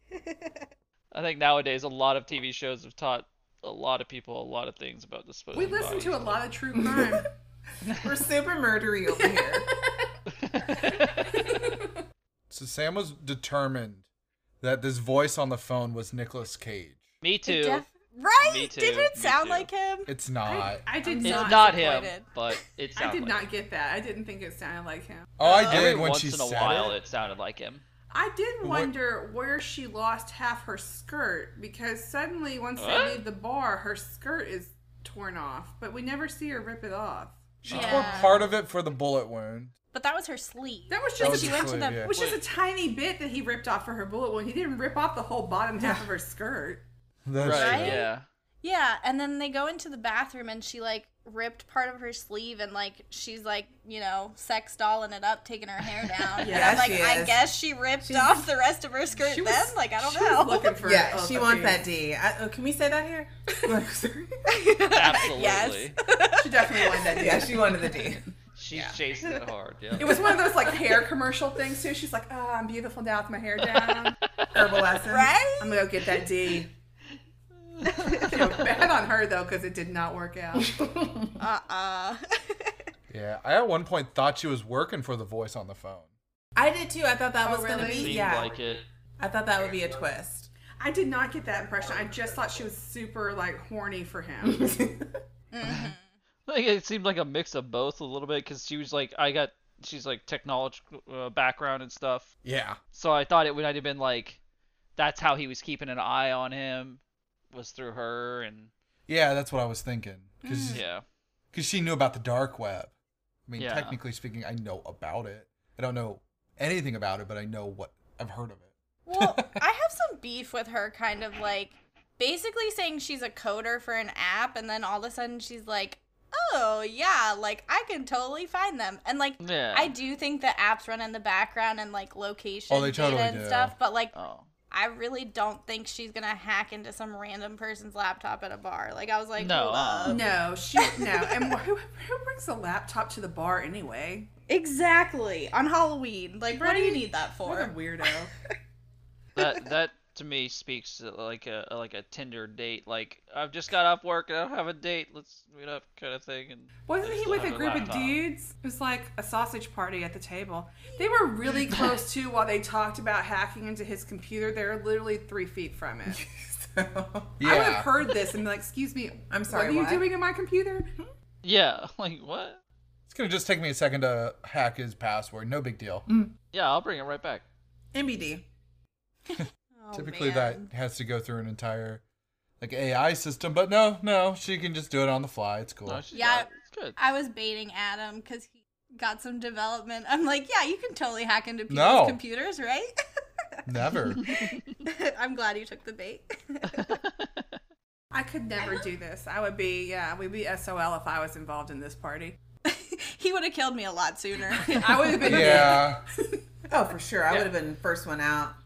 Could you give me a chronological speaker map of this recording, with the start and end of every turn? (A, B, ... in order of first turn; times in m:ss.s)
0:01.1-0:06.4 A
0:05.5-0:07.3 B
0:06.8-0:07.2 C
0:07.8-0:08.2 A
0:08.0-0:09.7 C
0:09.2-0:10.1 B
0:10.3-0:11.4 A
0:11.3-0:11.9 B
0:12.5-0:14.1 D
0:14.6-0:17.1 D
0:17.2-0:17.8 A
0:17.5-0:20.1 E
0:18.4-0:19.7 A
0:20.1-0:20.8 D
0:20.4-0:22.1 B
0:21.1-0:22.6 E
0:21.2-0:23.4 A
0:23.0-0:26.0 B
0:25.4-0:27.0 D
0:25.4-0:27.8 A
0:28.1-0:38.4 B
0:28.6-0:28.9 D
0:32.8-0:33.2 A
0:37.6-0:39.7 D
0:37.7-0:38.4 E
0:39.9-0:42.1 E
0:40.9-0:46.8 B
0:41.2-0:42.1 D
0:42.1-0:42.4 A
0:45.8-0:46.1 C
0:47.2-0:48.0 D
0:47.4-0:48.2 A
0:47.4-0:48.1 E
0:48.6-1:00.8 E
0:56.4-0:57.0 B
0:56.4-0:58.4 C
0:59.1-1:01.8 B
1:00.8-1:05.2 C
1:04.5-1:07.1 E
1:04.9-1:06.0 A
1:06.4-1:07.8 B
1:07.1-1:08.3 C
1:08.6-1:10.3 A
1:10.0-1:14.2 B
1:13.7-1:14.6 A
1:14.5-1:15.4 C
1:15.1-1:15.8 E
1:15.6-1:16.7 B
1:17.7-1:18.4 A
1:17.9-1:18.5 E
1:18.2-1:20.8 B
1:20.6-1:21.4 C
1:21.4-1:22.7 E
1:23.1-1:26.1 D
1:26.6-1:28.6 C
1:27.4-1:28.3 B
1:27.8-1:28.8 A
1:29.2-1:30.5 C
1:30.8-1:34.7 B
1:34.5-1:35.1 C
1:35.5-1:36.0 E
1:35.6-1:35.9 A
1:36.5-1:42.3 A
1:42.4-1:42.8 D
1:42.9-1:44.4 A
1:45.0-1:48.7 A
1:49.1-1:50.8 D
1:50.4-1:50.8 B
1:50.7-1:51.0 A
1:51.5-1:52.9 D
1:53.5-1:59.6 D
1:53.6-1:54.0 A
1:59.1-2:14.2 E
2:09.4-2:09.9 A
2:12.7-2:13.8 D
2:14.1-2:14.5 A
2:14.7-2:20.3 E
2:19.4-2:20.2 A
2:20.1-2:24.3 B
2:24.5-2:27.7 E
2:26.6-2:28.3 B
2:29.4-2:38.2 A
2:36.9-2:46.2 B
2:46.1-2:47.5 C
2:47.4-2:47.9 D
2:47.4-2:50.9 B
2:49.3-2:50.1 C
2:51.4-2:52.6 A
2:53.1-2:56.1 D
2:56.1-2:56.3 C
2:56.5-2:57.4 A
2:57.9-2:58.5 C
2:59.3-3:00.7 E
2:59.4-3:02.0 D
3:02.6-3:06.0 D
3:05.9-3:07.0 A
3:06.1-3:12.9 E
3:11.7-3:12.2 D
3:13.7-3:14.2 D
3:14.2-3:14.8 A
3:14.3-3:17.0 E
3:16.6-3:17.6 A
3:18.1-3:22.4 B
3:22.6-3:25.8 E
3:24.6-3:26.0 B
3:25.3-3:26.0 D
3:25.4-3:25.8 C
3:26.7-3:28.6 C